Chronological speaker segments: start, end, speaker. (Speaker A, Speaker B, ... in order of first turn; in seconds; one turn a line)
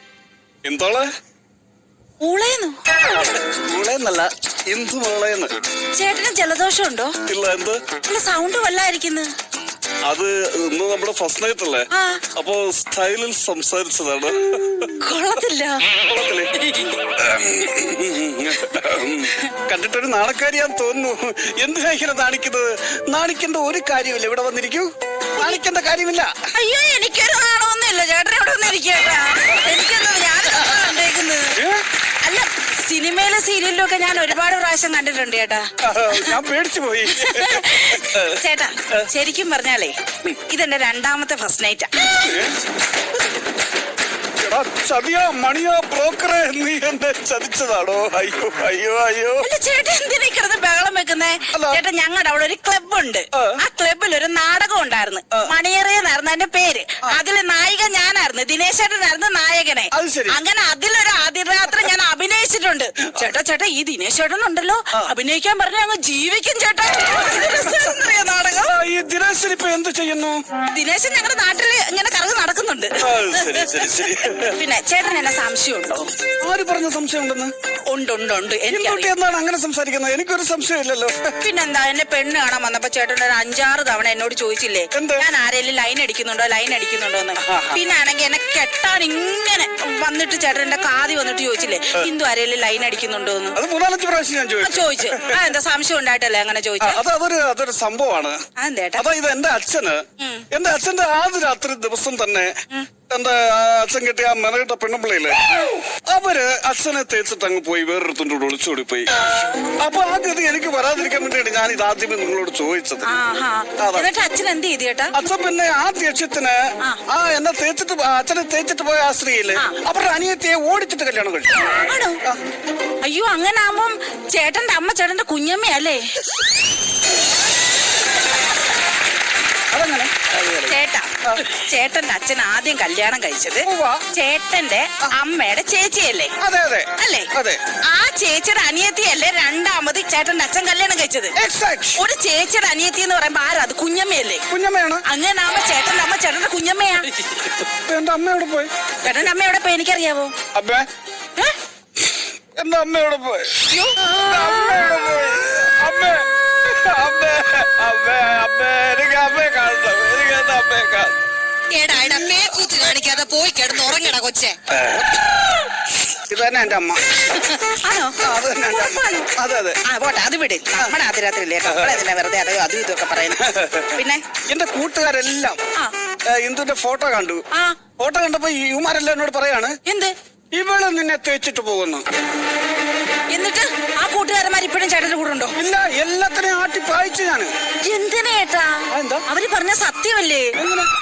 Speaker A: 0.6-1.1
Speaker B: 2.2-2.8
Speaker A: 3.2-5.5
Speaker B: 6.0-7.2
Speaker A: 7.3-7.8
Speaker B: 8.0-9.3
Speaker A: 10.0-15.0
Speaker B: 11.9-12.2
Speaker B: 14.9-15.9
Speaker A: 15.9-26.3
Speaker B: 26.5-31.6
Speaker A: 31.5-31.8
Speaker B: 32.2-36.4
Speaker A: 35.8-39.1
Speaker B: 37.1-42.3
Speaker A: 42.1-42.6
Speaker A: 44.4-49.5
Speaker B: 49.4-68.8
Speaker A: 51.5-51.8
Speaker A: 53.3-53.6
Speaker A: 59.9-60.4
Speaker A: 67.2-68.0
Speaker A: 68.5-70.4
Speaker B: 70.7-73.9
Speaker A: 73.0-74.6
Speaker B: 74.5-76.1
Speaker A: 76.4-77.5
Speaker B: 77.9-79.1
Speaker A: 78.7-81.3
Speaker B: 81.4-93.6
Speaker A: 84.9-85.3
Speaker A: 87.4-87.8
Speaker A: 93.5-95.5
Speaker B: 94.6-97.0
Speaker A: 96.8-98.4
Speaker B: 98.6-99.0
Speaker A: 99.0-102.5
Speaker B: 100.2-100.5
Speaker A: 103.1-105.5
Speaker A: 106.1-109.1
Speaker A: 109.7-113.1
Speaker B: 113.0-115.1
Speaker A: 113.8-114.1
Speaker A: 115.1-121.7
Speaker B: 121.7-122.2
Speaker B: 123.0-126.1
Speaker A: 129.7-131.4
Speaker B: 130.7-136.3
Speaker A: 133.7-134.1
Speaker A: 136.4-137.6
Speaker B: 137.0-137.3
Speaker B: 137.8-141.4
Speaker A: 141.4-142.0
Speaker B: 141.9-144.5
Speaker A: 144.5-145.0
Speaker B: 145.1-147.2
Speaker A: 147.7-148.7
Speaker B: 149.0-150.3
Speaker A: 150.5-150.9
Speaker A: 152.1-161.2
Speaker B: 153.7-154.0
Speaker C: 161.8-164.8
Speaker A: 164.7-165.2
Speaker A: 166.1-167.0
Speaker B: 167.3-169.3
Speaker A: 168.2-169.8
Speaker B: 169.8-174.2
Speaker A: 171.6-172.0
Speaker A: 173.3-174.0
Speaker A: 174.5-175.6
Speaker A: 176.3-177.4
Speaker B: 177.5-177.8
Speaker A: 178.0-179.8
Speaker B: 179.9-180.1
Speaker A: 180.5-182.1
Speaker B: 183.3-185.6
Speaker A: 185.6-187.5
Speaker B: 187.8-190.6
Speaker A: 188.9-189.3
Speaker A: 190.6-190.9